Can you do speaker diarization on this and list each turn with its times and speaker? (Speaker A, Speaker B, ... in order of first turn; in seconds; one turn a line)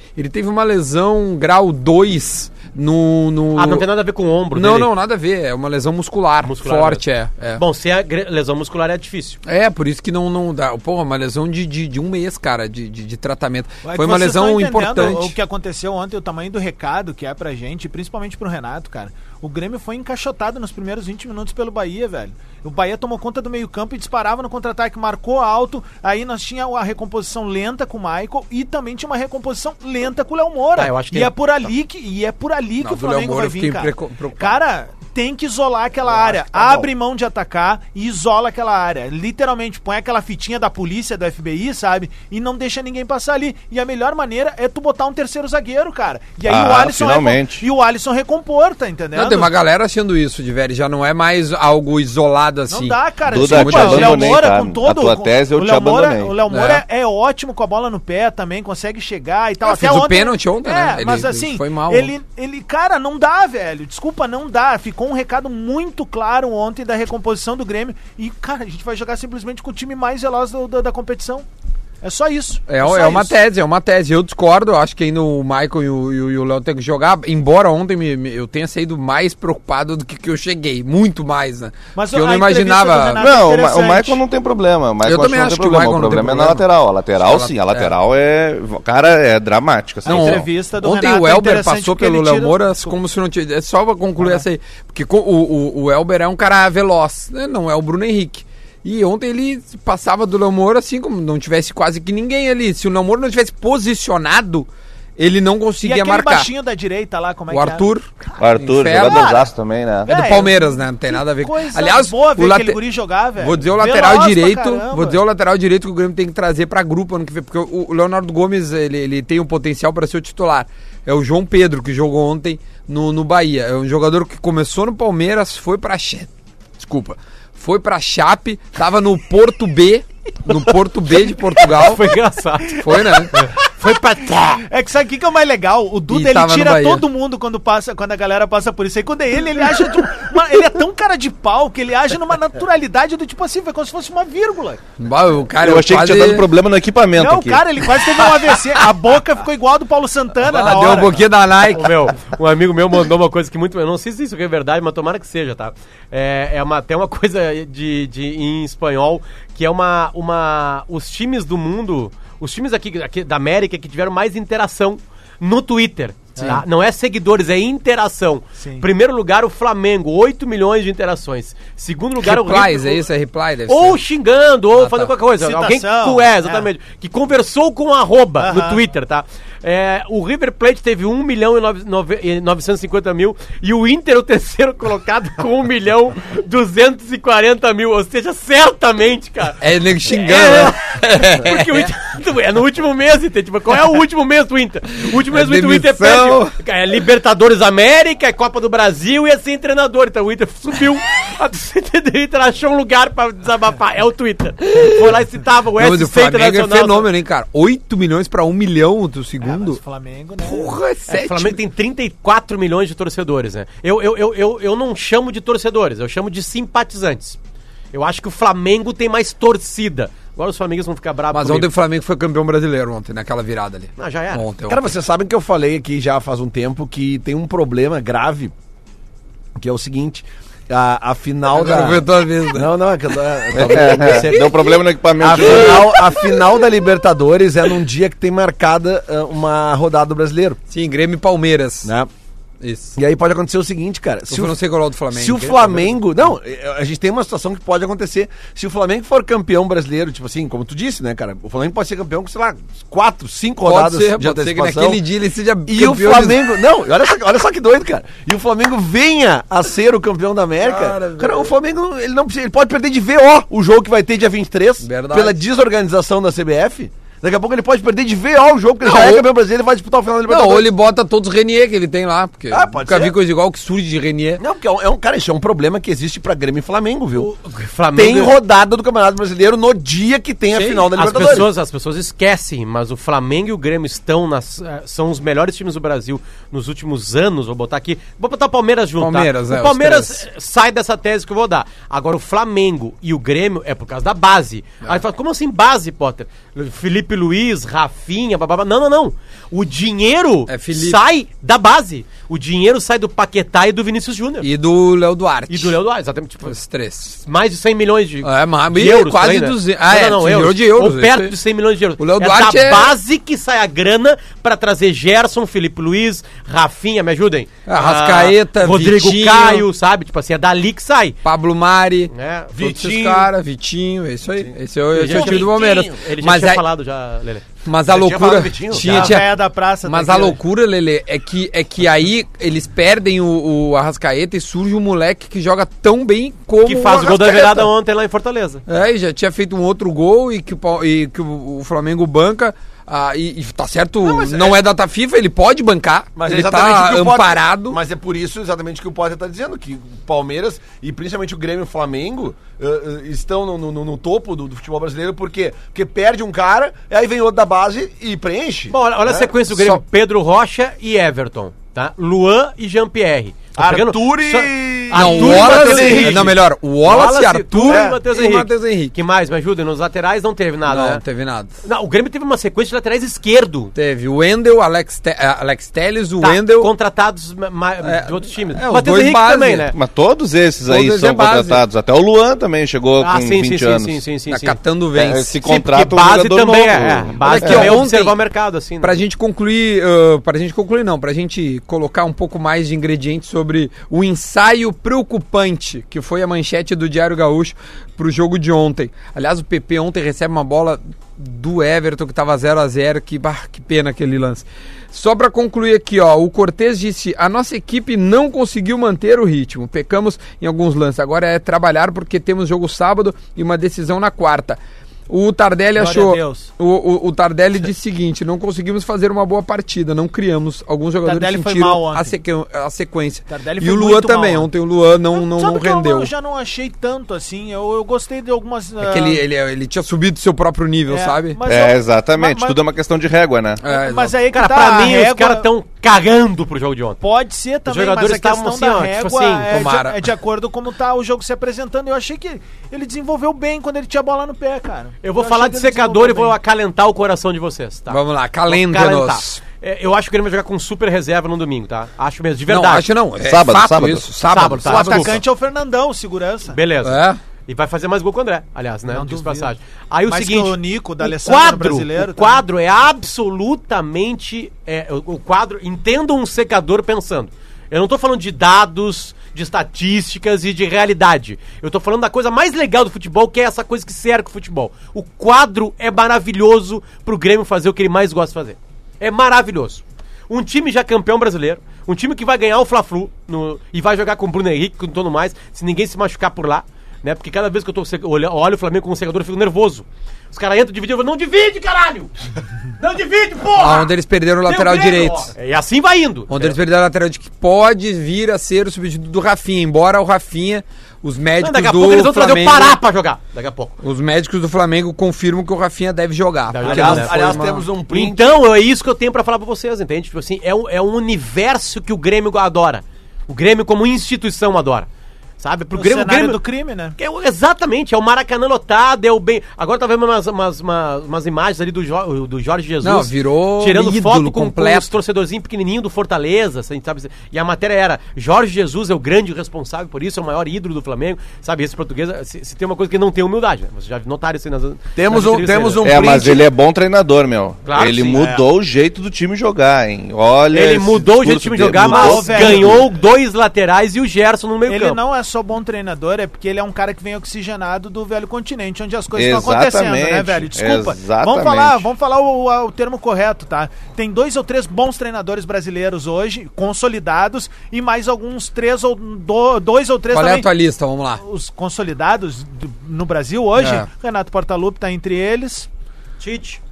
Speaker A: 0.2-3.9
Speaker B: 3.5-4.9
Speaker A: 4.5-7.6
Speaker B: 6.5-7.0
Speaker B: 7.6-9.4
Speaker A: 9.4-15.3
Speaker C: 13.8-49.5
Speaker B: 30.8-31.3
Speaker A: 32.8-34.6
Speaker D: 46.5-47.6
Speaker A: 49.1-54.4
Speaker C: 52.7-71.5
Speaker D: 53.3-56.4
Speaker A: 56.5-56.8
Speaker A: 59.6-62.1
Speaker C: 72.0-73.3
Speaker A: 72.7-83.2
Speaker C: 82.0-84.2
Speaker D: 83.2-90.5
Speaker A: 85.0-86.7
Speaker A: 87.2-87.9
Speaker C: 90.0-93.0
Speaker A: 90.1-106.5
Speaker C: 94.2-94.5
Speaker C: 105.8-109.5
Speaker A: 107.5-109.4
Speaker D: 108.4-110.4
Speaker C: 110.0-115.2
Speaker A: 110.1-112.8
Speaker A: 113.4-132.2
Speaker B: 131.7-134.7
Speaker A: 132.8-133.5
Speaker C: 132.9-133.4
Speaker C: 134.6-144.8
Speaker A: 136.1-137.1
Speaker A: 145.0-146.5
Speaker D: 145.6-147.8
Speaker C: 147.2-151.3
Speaker A: 150.4-152.1
Speaker B: 151.7-173.0
Speaker C: 168.6-168.9
Speaker A: 172.2-174.0
Speaker B: 173.7-207.1
Speaker A: 174.8-175.1
Speaker C: 175.4-176.7
Speaker C: 178.4-178.8
Speaker A: 189.6-191.9
Speaker A: 195.1-196.6
Speaker A: 204.7-205.2
Speaker A: 205.8-209.8
Speaker C: 209.4-210.8
Speaker A: 210.4-211.6
Speaker B: 211.1-217.4
Speaker B: 217.9-221.7
Speaker A: 221.3-224.9
Speaker B: 224.0-224.4
Speaker E: 224.7-228.5
Speaker E: 229.6-234.6
Speaker A: 231.5-232.7
Speaker A: 233.5-234.7
Speaker D: 233.6-236.1
Speaker E: 235.2-240.6
Speaker A: 235.4-236.5
Speaker A: 240.7-241.9
Speaker E: 241.8-242.1
Speaker A: 242.6-243.0
Speaker E: 243.0-244.6
Speaker A: 244.3-246.0
Speaker E: 245.1-255.0
Speaker A: 253.6-256.4
Speaker E: 255.7-270.7
Speaker A: 260.6-261.5
Speaker A: 264.8-265.4
Speaker A: 268.8-269.3
Speaker A: 270.3-274.4
Speaker E: 272.5-273.1
Speaker E: 274.4-277.3
Speaker B: 277.2-278.4
Speaker E: 277.9-281.5
Speaker A: 280.5-281.4
Speaker B: 280.9-304.5
Speaker A: 289.0-290.2
Speaker A: 300.5-301.0
Speaker A: 304.4-305.8
Speaker B: 305.5-306.6
Speaker A: 306.4-307.2
Speaker B: 307.3-321.2
Speaker A: 308.2-311.4
Speaker A: 312.0-312.9
Speaker A: 317.7-319.7
Speaker A: 321.2-326.6
Speaker B: 322.1-322.5
Speaker E: 322.5-323.3
Speaker B: 324.9-329.1
Speaker E: 325.0-326.0
Speaker A: 327.6-329.3
Speaker E: 327.9-329.1
Speaker C: 328.9-330.4
Speaker A: 329.9-337.7
Speaker B: 336.6-338.6
Speaker E: 337.1-337.5
Speaker A: 338.7-347.8
Speaker E: 344.1-344.6
Speaker E: 346.2-359.3
Speaker B: 358.7-371.0
Speaker A: 359.5-359.8
Speaker E: 363.6-366.3
Speaker A: 364.9-369.0
Speaker E: 367.7-368.0
Speaker A: 370.7-371.6
Speaker B: 371.6-373.7
Speaker A: 373.8-376.7
Speaker B: 376.2-379.8
Speaker A: 377.8-379.7
Speaker D: 379.7-384.0
Speaker A: 380.6-381.6
Speaker B: 383.0-384.6
Speaker A: 384.3-385.4
Speaker D: 384.9-387.8
Speaker B: 385.4-389.0
Speaker A: 387.2-388.2
Speaker A: 388.8-426.1
Speaker C: 415.8-416.5
Speaker C: 421.1-422.1
Speaker C: 423.3-424.5
Speaker C: 425.1-429.2
Speaker A: 428.8-431.4
Speaker C: 430.9-432.6
Speaker D: 431.5-433.6
Speaker A: 433.6-434.2
Speaker C: 433.7-435.5
Speaker B: 434.3-437.0
Speaker C: 437.0-446.4
Speaker B: 437.7-439.5
Speaker A: 439.5-440.0
Speaker B: 445.0-452.9
Speaker A: 447.9-449.4
Speaker A: 452.5-455.2
Speaker D: 453.2-454.1
Speaker B: 454.3-455.2
Speaker C: 454.6-456.6
Speaker B: 456.5-492.1
Speaker A: 456.8-457.2
Speaker C: 458.9-459.5
Speaker C: 460.1-462.4
Speaker B: 492.8-493.9
Speaker A: 493.6-495.3
Speaker B: 494.4-496.6
Speaker A: 496.3-502.8
Speaker B: 501.4-503.8
Speaker A: 503.8-507.7
Speaker B: 506.5-507.2
Speaker E: 506.6-508.4
Speaker B: 507.9-514.9
Speaker B: 515.4-516.4
Speaker C: 515.8-517.0
Speaker B: 517.0-535.9
Speaker A: 522.8-524.9
Speaker E: 535.0-536.5
Speaker D: 535.8-542.9
Speaker B: 537.6-538.4
Speaker B: 540.5-545.0
Speaker C: 541.7-542.9
Speaker C: 544.7-560.5
Speaker D: 549.1-551.9
Speaker A: 560.1-561.2
Speaker C: 561.2-565.7
Speaker A: 563.6-563.9
Speaker B: 566.2-566.6